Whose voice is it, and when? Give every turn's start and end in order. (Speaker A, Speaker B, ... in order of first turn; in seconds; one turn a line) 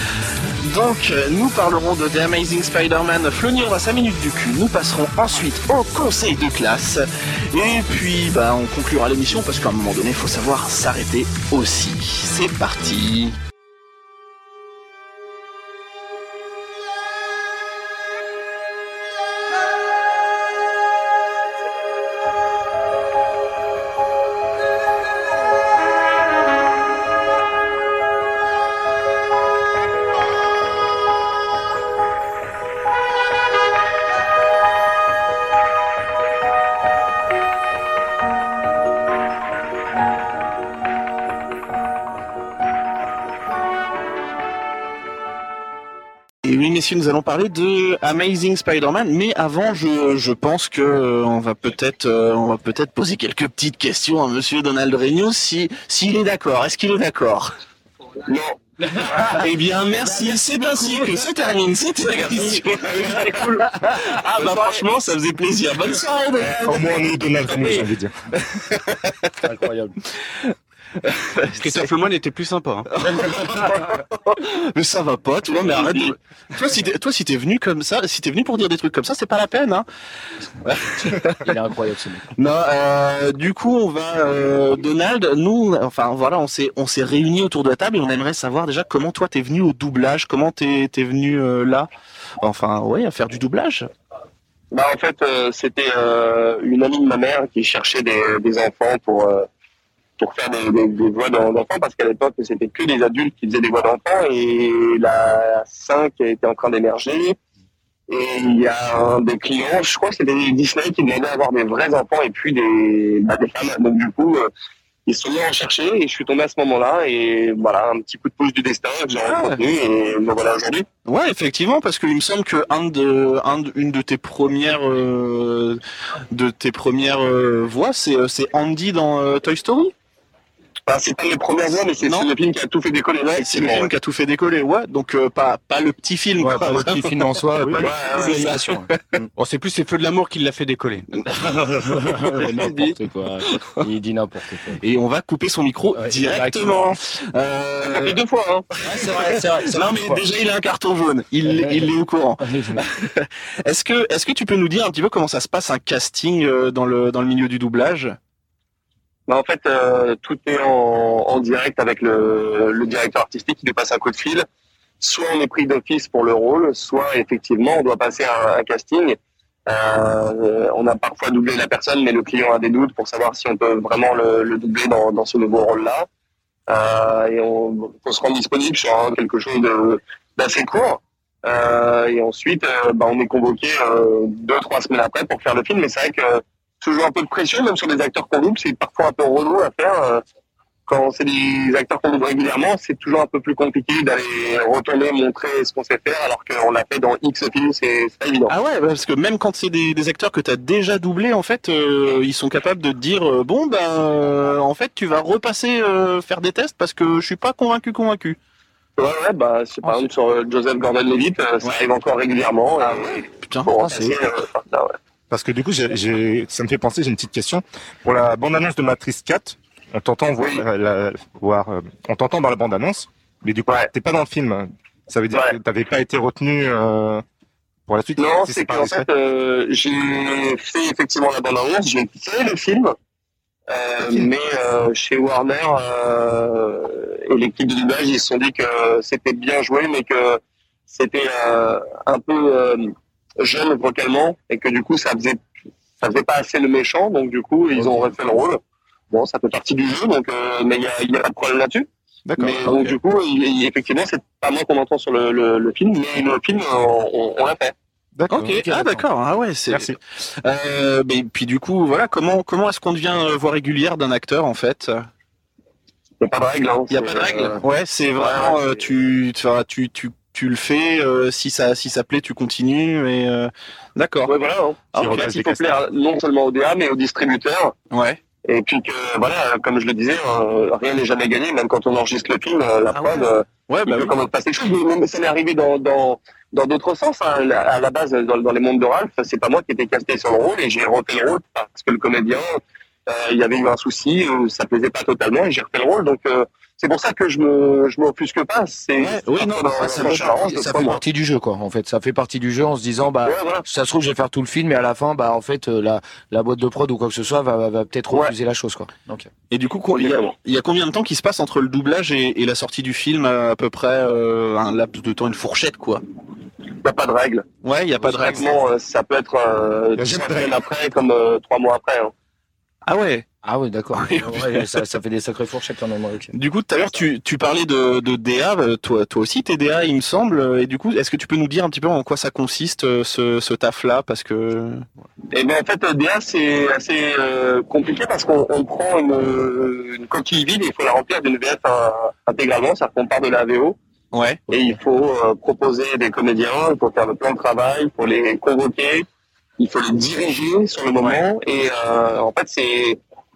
Speaker A: 0.6-13.3
Speaker A: 46.4-57.5
Speaker B: 58.3-58.6
Speaker A: 59.1-66.8
Speaker B: 62.2-64.9
Speaker C: 66.7-68.1
Speaker D: 69.4-70.0
Speaker A: 70.4-71.9
Speaker E: 71.6-72.9
Speaker A: 73.0-79.9
Speaker B: 75.6-76.1
Speaker A: 80.6-81.4
Speaker D: 81.4-82.3
Speaker A: 82.4-91.9
Speaker A: 92.4-93.9
Speaker B: 94.7-99.5
Speaker B: 100.2-107.4
Speaker B: 108.1-114.5
Speaker B: 115.1-120.9
Speaker A: 119.2-119.6
Speaker A: 121.0-125.8
Speaker A: 126.3-129.9
Speaker B: 130.9-133.9
Speaker A: 132.0-132.3
Speaker A: 133.3-137.1
Speaker D: 136.4-138.9
Speaker A: 137.7-139.0
Speaker B: 137.8-138.6
Speaker E: 139.4-141.1
Speaker D: 141.3-144.8
Speaker B: 142.4-142.9
Speaker A: 144.8-148.2
Speaker D: 145.9-146.8
Speaker B: 147.8-148.7
Speaker A: 148.8-158.2
Speaker D: 151.5-152.8
Speaker B: 159.3-164.5
Speaker B: 165.0-176.1
Speaker B: 176.7-190.2
Speaker B: 190.9-198.5
Speaker A: 198.5-208.4
Speaker B: 209.0-215.0
Speaker A: 212.8-214.2
Speaker C: 215.3-227.2
Speaker B: 220.4-220.6
Speaker C: 227.9-229.1
Speaker B: 228.2-232.9
Speaker B: 233.7-240.4
Speaker B: 240.9-245.4
Speaker B: 246.0-248.6
Speaker B: 249.1-251.9
Speaker C: 252.3-252.9
Speaker B: 252.4-257.8
Speaker C: 258.2-259.0
Speaker A: 258.3-265.1
Speaker C: 259.7-260.0
Speaker B: 266.2-267.6
Speaker A: 266.9-274.3
Speaker B: 268.2-268.8
Speaker B: 274.3-277.7
Speaker C: 275.0-275.8
Speaker A: 277.9-278.2
Speaker B: 278.5-301.0
Speaker A: 282.9-284.1
Speaker A: 299.0-301.0
Speaker D: 300.7-309.3
Speaker B: 303.2-303.6
Speaker A: 309.5-316.0
Speaker B: 309.9-310.3
Speaker B: 316.8-317.5
Speaker A: 317.6-318.5
Speaker B: 318.1-322.1
Speaker C: 320.0-320.6
Speaker A: 322.9-323.3
Speaker D: 323.4-326.3
Speaker A: 323.9-324.7
Speaker A: 326.3-334.9
Speaker B: 335.3-343.8
Speaker A: 344.1-344.4
Speaker B: 344.5-349.1
Speaker B: 349.6-353.0